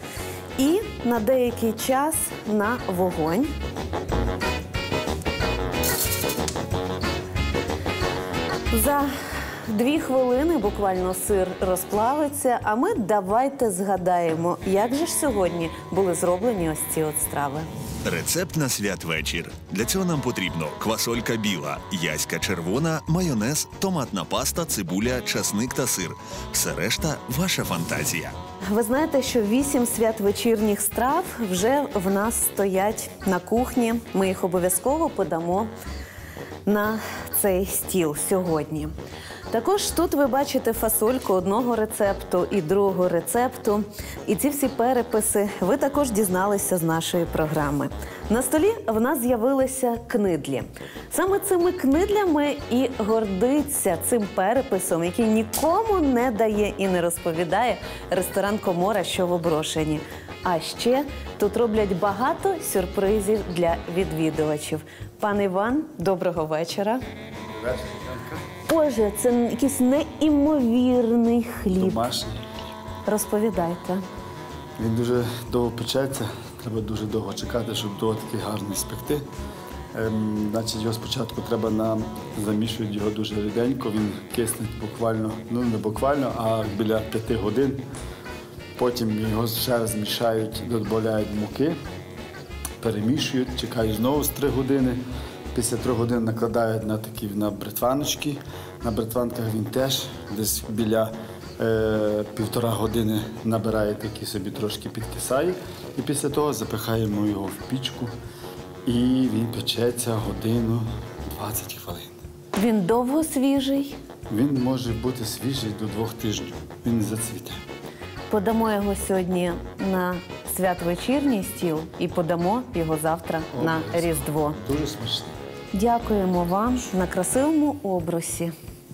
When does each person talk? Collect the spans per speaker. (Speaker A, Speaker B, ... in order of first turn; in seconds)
Speaker A: 0.6-3.5, 8.7-9.1, 9.7-17.7, 28.7-35.7, 36.6-38.9, 39.5-67.0, 68.7-72.1, 73.0-74.0, 112.5-114.0, 118.3-124.6, 125.7-128.5
Speaker B: 18.0-28.3
Speaker C: 67.6-68.4, 71.8-72.4, 74.8-79.2, 79.9-87.8, 88.8-91.8, 92.8-95.0, 95.5-108.1, 108.8-112.1, 114.3-117.6, 123.5-125.3